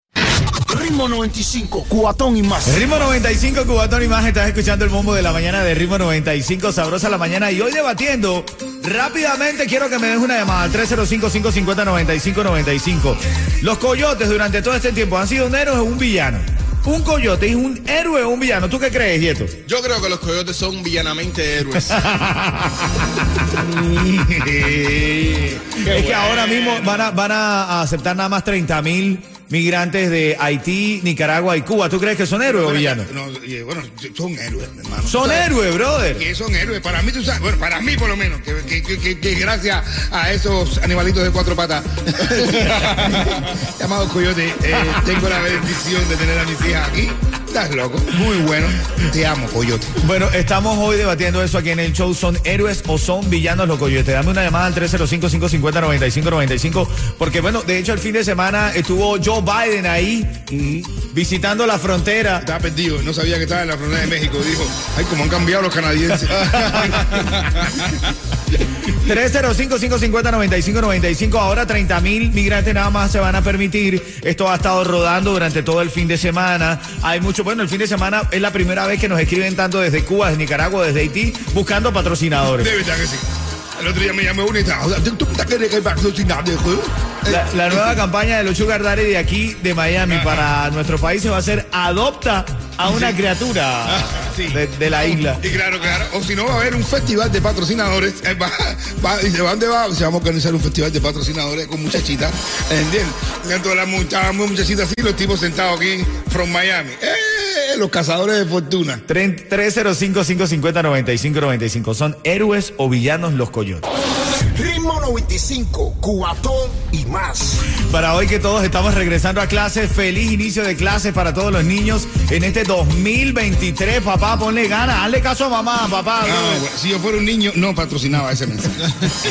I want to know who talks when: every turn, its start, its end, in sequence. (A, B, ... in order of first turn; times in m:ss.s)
0:00.7-0:02.9 A
0:02.6-0:19.5 B
0:19.6-0:22.0 C
0:21.9-0:23.2 B
0:23.5-0:26.4 D
0:25.8-0:33.1 B
0:25.9-0:27.1 C
0:32.4-0:35.5 D
0:35.0-0:36.2 B
0:36.1-0:49.9 D
0:50.0-1:00.4 B
1:00.5-1:00.9 D
1:01.1-1:02.4 B
1:02.4-1:07.6 D
1:06.6-1:06.9 B
1:08.8-1:22.7 B
1:22.6-1:28.0 D
1:27.3-1:35.4 B
1:30.0-1:30.5 D
1:32.8-1:33.2 D
1:34.0-1:49.0 D
1:49.1-1:53.8 B
1:54.5-1:57.6 A
1:57.8-2:06.6 B
2:06.2-2:08.9 D